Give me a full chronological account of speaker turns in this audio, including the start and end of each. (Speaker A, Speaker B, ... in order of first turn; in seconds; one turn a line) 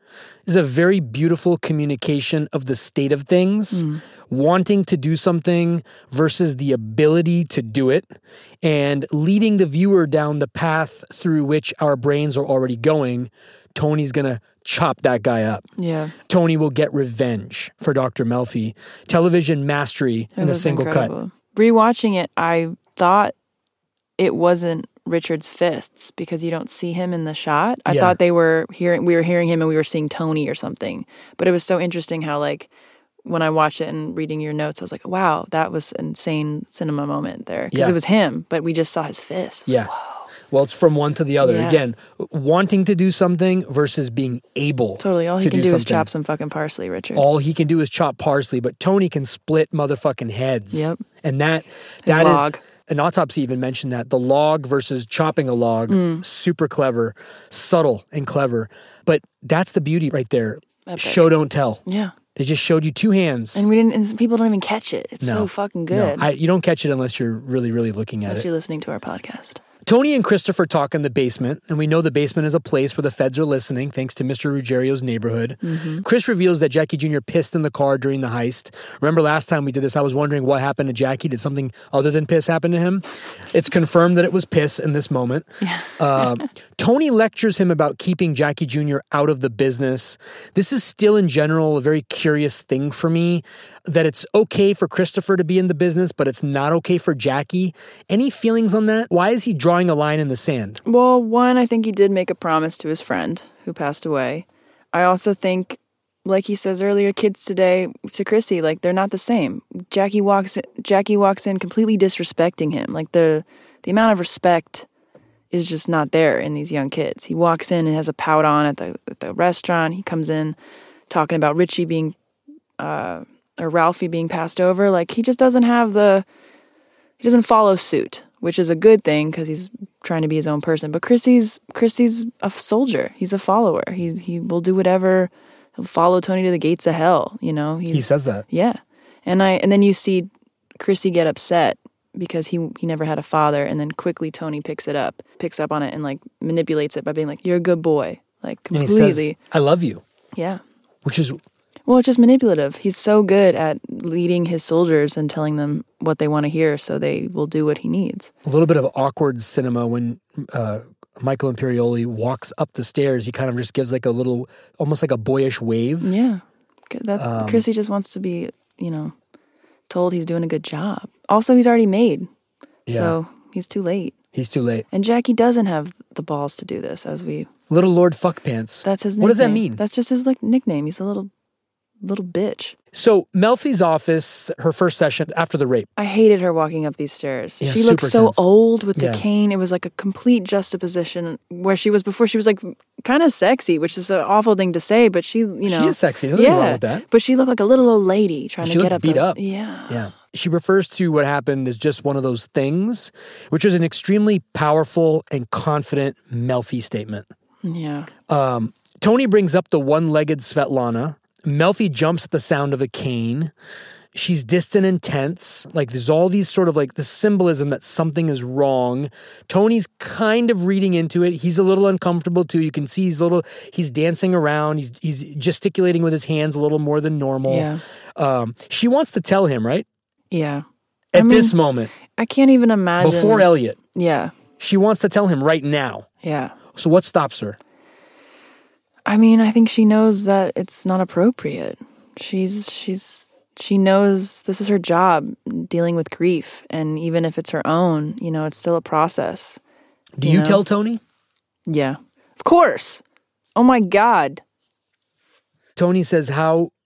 Speaker A: 0.5-15.6
Speaker B: 3.7-4.0
Speaker B: 15.8-16.1
Speaker A: 16.3-21.1
Speaker B: 20.4-23.3
Speaker B: 24.2-32.7
Speaker A: 27.9-28.2
Speaker B: 33.2-40.2
Speaker A: 37.7-38.0
Speaker A: 39.7-39.9
Speaker A: 40.5-46.1
Speaker B: 41.4-41.8
Speaker B: 45.0-47.2
Speaker A: 47.1-61.8
Speaker B: 50.7-51.0
Speaker B: 52.0-52.6
Speaker B: 55.9-56.2
Speaker B: 60.9-61.3
Speaker B: 61.9-62.1
Speaker A: 62.4-63.6
Speaker B: 63.5-66.2
Speaker A: 65.2-68.5
Speaker B: 68.2-69.6
Speaker A: 69.8-100.8
Speaker B: 75.6-76.0
Speaker B: 85.6-86.3
Speaker B: 100.8-114.8
Speaker B: 115.5-120.5
Speaker B: 121.1-122.1
Speaker B: 122.8-126.2
Speaker B: 127.2-149.4
Speaker A: 137.9-138.4
Speaker A: 148.7-150.0
Speaker B: 150.3-150.6
Speaker A: 151.0-151.4
Speaker B: 151.9-158.3
Speaker A: 158.4-166.1
Speaker B: 166.0-169.1
Speaker A: 167.2-167.6
Speaker B: 169.9-172.3
Speaker A: 172.9-173.2
Speaker B: 172.9-174.2
Speaker A: 174.3-174.9
Speaker B: 174.9-177.5
Speaker A: 177.7-179.8
Speaker B: 178.8-181.3
Speaker B: 182.0-182.7
Speaker A: 182.9-185.9
Speaker B: 186.0-200.1
Speaker A: 187.6-188.4
Speaker A: 188.9-189.2
Speaker A: 195.7-197.0
Speaker A: 198.6-207.3
Speaker B: 207.6-208.1
Speaker A: 208.3-213.5
Speaker A: 214.1-229.8
Speaker B: 227.5-227.8
Speaker B: 230.3-234.3
Speaker A: 231.1-231.9
Speaker A: 233.0-233.8
Speaker A: 234.6-236.1
Speaker B: 236.2-236.6
Speaker A: 236.7-237.6
Speaker B: 239.1-249.6
Speaker A: 250.2-251.0
Speaker B: 250.2-250.6
Speaker B: 251.7-253.0
Speaker B: 253.6-254.4
Speaker A: 255.8-256.7